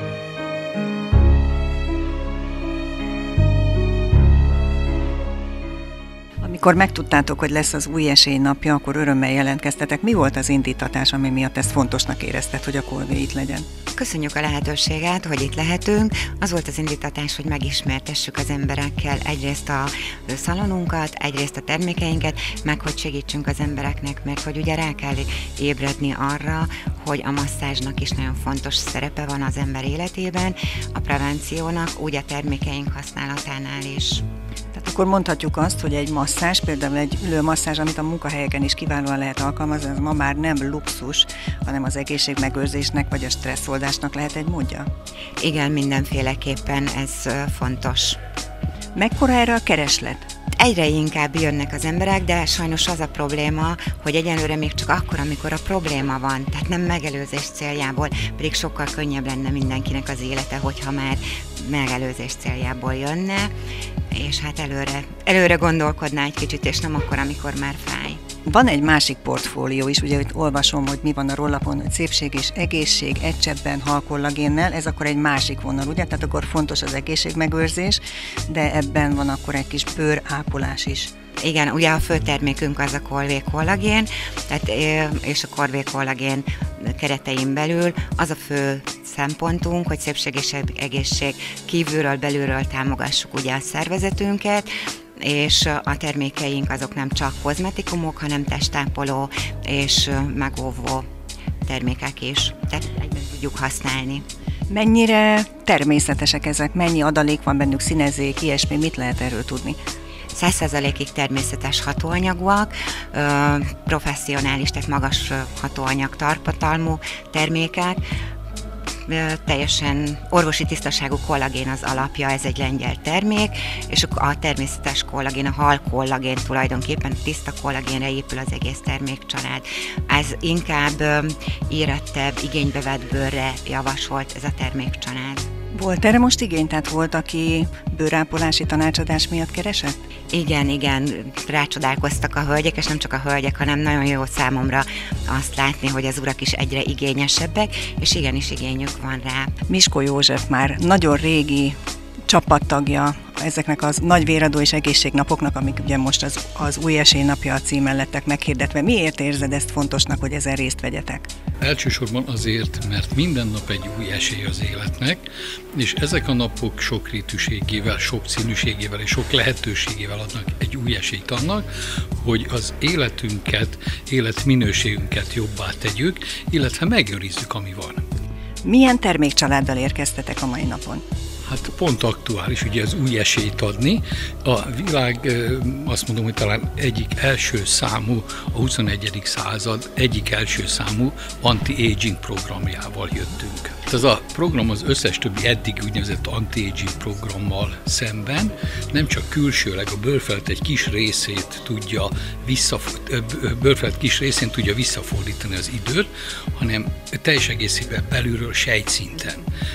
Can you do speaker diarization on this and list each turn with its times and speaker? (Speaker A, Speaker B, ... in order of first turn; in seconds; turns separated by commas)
Speaker A: 6.4-13.7, Speaker B: 13.9-34.2, Speaker A: 34.7-44.9, Speaker B: 45.4-48.2, Speaker A: 49.0-50.3, Speaker B: 50.5-63.5, Speaker B: 64.1-68.2, Speaker A: 68.5-81.1, Speaker B: 81.4-101.1, Speaker B: 101.7-104.2, Speaker A: 104.7-109.8, Speaker B: 110.3-118.0, Speaker B: 119.1-135.5, Speaker A: 135.7-139.9, Speaker B: 140.3-149.5, Speaker A: 149.7-151.8, Speaker A: 152.3-161.2, Speaker C: 161.6-165.2, Speaker C: 165.7-178.0, Speaker A: 178.6-181.0, Speaker C: 181.4-209.4